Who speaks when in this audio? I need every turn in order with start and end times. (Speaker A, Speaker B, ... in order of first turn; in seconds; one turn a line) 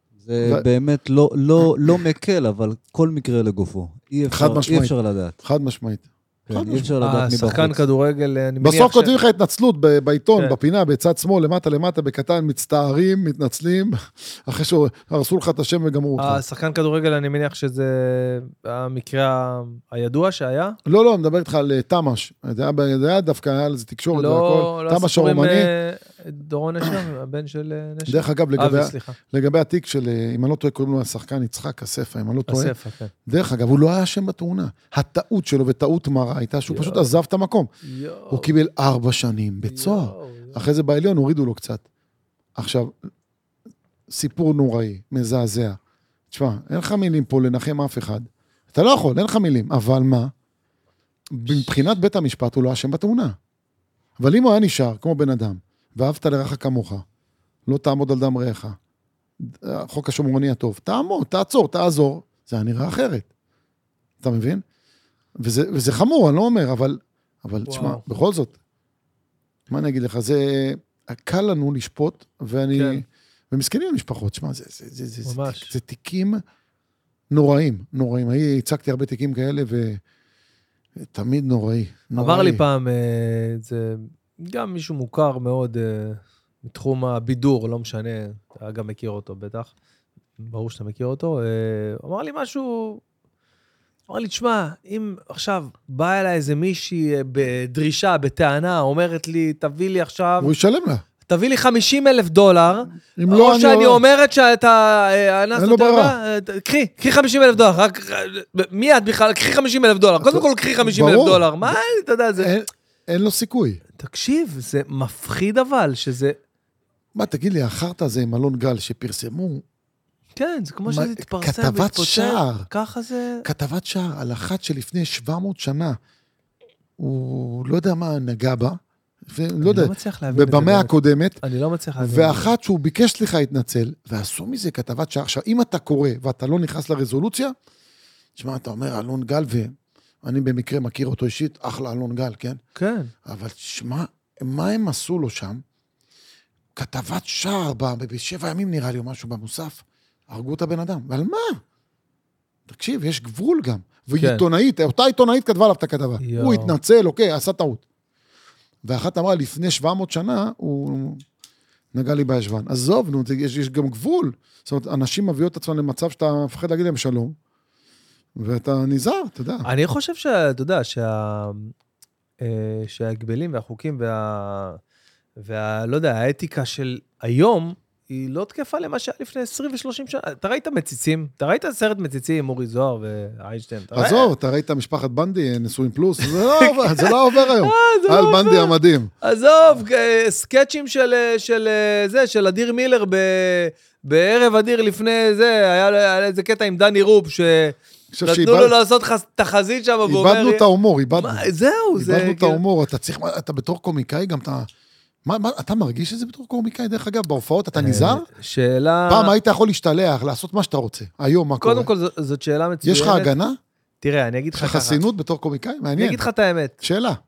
Speaker A: 0.2-5.4
Speaker B: 1.6-2.0
Speaker B: 4.3-6.9
Speaker A: 6.5-7.8
Speaker C: 7.0-9.2
Speaker B: 8.6-16.4
Speaker C: 16.2-20.8
Speaker B: 20.9-25.7
Speaker C: 24.1-29.2
Speaker B: 28.1-32.7
Speaker C: 32.5-33.1
Speaker B: 33.3-37.7
Speaker C: 36.7-37.1
Speaker C: 37.8-38.5
Speaker B: 38.3-41.8
Speaker C: 39.6-40.6
Speaker B: 42.5-42.9
Speaker B: 44.1-45.8
Speaker B: 46.3-50.3
Speaker B: 51.3-53.4
Speaker B: 54.2-57.0
Speaker B: 57.7-58.8
Speaker B: 59.4-63.3
Speaker B: 64.2-64.6
Speaker B: 65.4-68.5
Speaker C: 67.7-68.0
Speaker B: 69.7-76.4
Speaker C: 72.7-73.0
Speaker C: 75.2-75.7
Speaker B: 77.3-80.0
Speaker B: 81.0-82.6
Speaker C: 82.1-89.7
Speaker C: 90.4-93.0
Speaker C: 94.1-100.5
Speaker B: 100.4-101.0
Speaker C: 101.3-112.5
Speaker B: 103.2-104.0
Speaker B: 105.5-106.2
Speaker B: 110.2-111.8
Speaker B: 112.4-113.8
Speaker C: 114.0-116.4
Speaker B: 117.1-119.6
Speaker C: 120.4-123.5
Speaker B: 120.9-122.7
Speaker B: 123.4-126.0
Speaker B: 127.0-131.4
Speaker C: 129.6-132.5
Speaker B: 132.0-137.5
Speaker B: 138.3-142.6
Speaker C: 142.8-143.1
Speaker B: 143.2-145.6
Speaker B: 146.8-151.6
Speaker B: 152.7-157.8
Speaker C: 154.2-154.4
Speaker C: 156.2-156.7
Speaker B: 158.8-161.2
Speaker B: 161.9-167.3
Speaker B: 168.4-169.7
Speaker C: 169.6-171.7
Speaker C: 172.4-174.8
Speaker C: 175.4-184.3
Speaker B: 183.9-189.1
Speaker C: 186.2-200.6
Speaker B: 198.1-198.7
Speaker B: 200.0-204.7
Speaker C: 201.2-202.6
Speaker B: 205.2-208.3
Speaker C: 207.7-209.3
Speaker B: 209.1-211.9
Speaker C: 211.6-213.3
Speaker B: 212.8-213.6
Speaker C: 214.0-215.0
Speaker B: 214.5-216.2
Speaker C: 216.0-216.7
Speaker B: 216.8-217.2